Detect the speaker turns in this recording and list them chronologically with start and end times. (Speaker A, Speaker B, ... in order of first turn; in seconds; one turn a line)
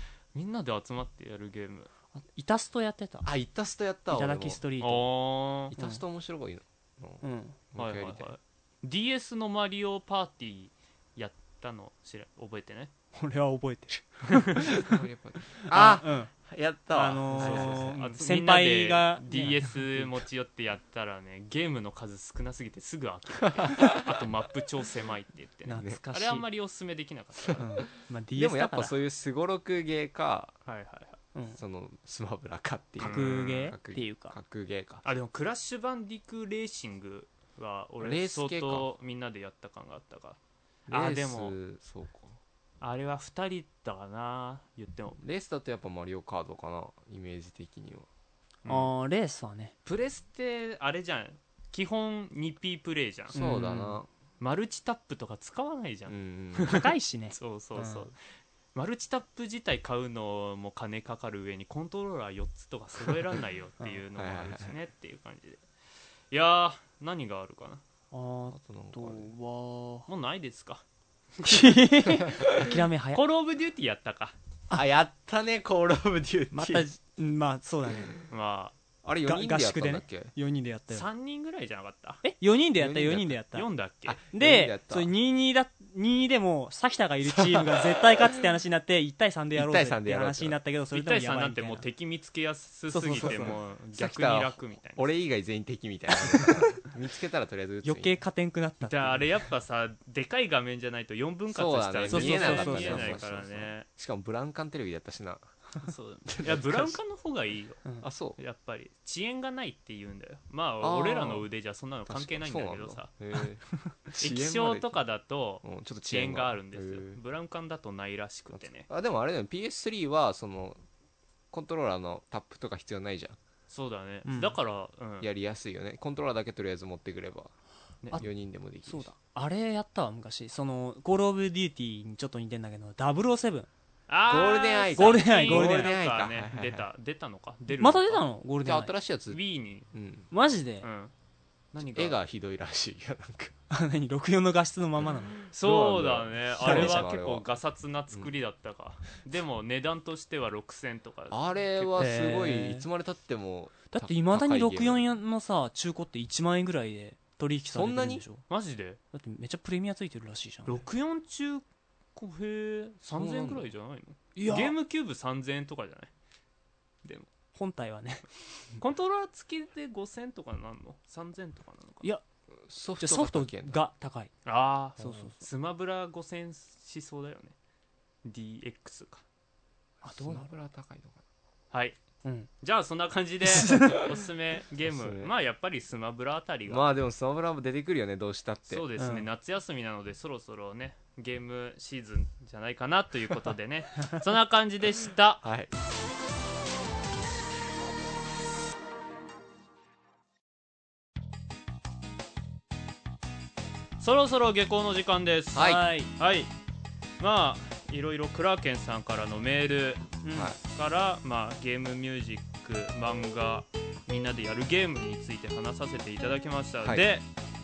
Speaker A: 0.3-1.9
Speaker B: 2.1-3.3
Speaker C: 3.2-4.6
Speaker B: 4.1-5.0
Speaker A: 4.8-5.7
Speaker B: 5.7-6.0
Speaker C: 5.7-8.3
Speaker B: 7.2-7.6
Speaker A: 7.8-12.9
Speaker B: 13.1-15.0
Speaker A: 14.3-14.6
Speaker C: 14.7-18.2
Speaker B: 15.6-16.3
Speaker B: 16.9-20.1
Speaker A: 17.4-27.7
Speaker C: 23.6-24.1
Speaker B: 25.7-26.4
Speaker C: 27.5-27.8
Speaker B: 27.6-28.9
Speaker C: 28.4-30.6
Speaker A: 30.7-31.2
Speaker B: 31.3-31.6
Speaker C: 31.6-35.0
Speaker A: 33.0-33.7
Speaker B: 33.0-34.4
Speaker A: 35.0-40.4
Speaker C: 38.0-38.9
Speaker C: 40.9-42.4
Speaker A: 40.9-41.6
Speaker A: 42.8-45.2
Speaker C: 45.2-48.1
Speaker A: 48.6-48.9
Speaker B: 48.7-49.7
Speaker A: 49.9-53.4
Speaker B: 53.3-54.0
Speaker C: 53.3-54.1
Speaker A: 54.4-58.2
Speaker C: 56.1-56.8
Speaker B: 56.6-58.1
Speaker A: 58.7-65.6
Speaker C: 64.2-64.8
Speaker A: 66.3-67.8
Speaker B: 68.1-70.1
Speaker C: 68.5-69.3
Speaker A: 70.1-70.8
Speaker B: 71.4-73.2
Speaker C: 72.1-72.8
Speaker A: 73.1-74.3
Speaker C: 74.7-76.8
Speaker B: 76.5-78.2
Speaker A: 78.3-78.7
Speaker C: 79.0-80.3
Speaker B: 79.3-81.1
Speaker A: 80.9-82.2
Speaker B: 82.2-83.7
Speaker C: 82.8-83.4
Speaker A: 83.5-84.2
Speaker C: 84.1-85.1
Speaker B: 84.3-91.8
Speaker C: 87.2-88.4
Speaker C: 89.5-90.6
Speaker A: 90.9-95.1
Speaker B: 92.9-93.6
Speaker C: 93.2-98.2
Speaker B: 97.8-99.3
Speaker A: 98.8-103.9
Speaker C: 101.5-105.5
Speaker B: 102.1-103.2
Speaker A: 105.8-107.8
Speaker C: 106.3-107.0
Speaker C: 108.0-108.4
Speaker A: 108.4-113.1
Speaker C: 110.8-111.5
Speaker C: 112.1-115.0
Speaker A: 114.2-118.9
Speaker C: 115.6-117.2
Speaker C: 118.5-120.8
Speaker C: 121.5-123.4
Speaker A: 123.7-125.3
Speaker B: 124.3-124.5
Speaker C: 125.2-127.5
Speaker C: 128.1-129.1
Speaker B: 128.9-133.7
Speaker A: 134.1-138.2
Speaker C: 134.3-136.9
Speaker B: 135.0-135.9
Speaker B: 137.7-138.9
Speaker C: 138.6-139.4
Speaker A: 139.3-139.9
Speaker C: 139.9-140.3
Speaker B: 140.3-140.9
Speaker A: 140.8-141.1
Speaker A: 141.7-142.2
Speaker C: 141.8-143.5
Speaker B: 143.7-145.3
Speaker C: 145.0-147.5
Speaker A: 145.5-152.0
Speaker B: 146.6-147.1
Speaker C: 151.3-155.1
Speaker B: 152.0-152.9
Speaker B: 153.9-158.5
Speaker C: 157.7-158.2
Speaker A: 158.5-159.0
Speaker B: 159.1-160.8
Speaker A: 160.7-166.1
Speaker C: 163.1-163.7
Speaker B: 164.3-164.8
Speaker A: 167.0-167.3
Speaker B: 167.5-168.3
Speaker A: 168.8-172.1
Speaker C: 172.6-173.8
Speaker B: 173.0-174.3
Speaker A: 174.5-177.6
Speaker B: 175.0-175.4
Speaker A: 178.2-179.2
Speaker B: 180.0-180.5
Speaker C: 180.1-181.2
Speaker A: 181.7-182.0
Speaker B: 182.2-182.5
Speaker A: 182.6-186.9
Speaker B: 183.5-184.1
Speaker C: 184.9-185.3
Speaker C: 186.7-188.9
Speaker A: 188.7-195.5
Speaker B: 189.0-189.3
Speaker C: 195.4-195.7
Speaker A: 204.0-206.5
Speaker C: 205.6-205.8
Speaker B: 205.6-206.1
Speaker A: 207.2-210.1
Speaker B: 210.2-210.5
Speaker C: 210.3-210.6
Speaker A: 210.6-217.3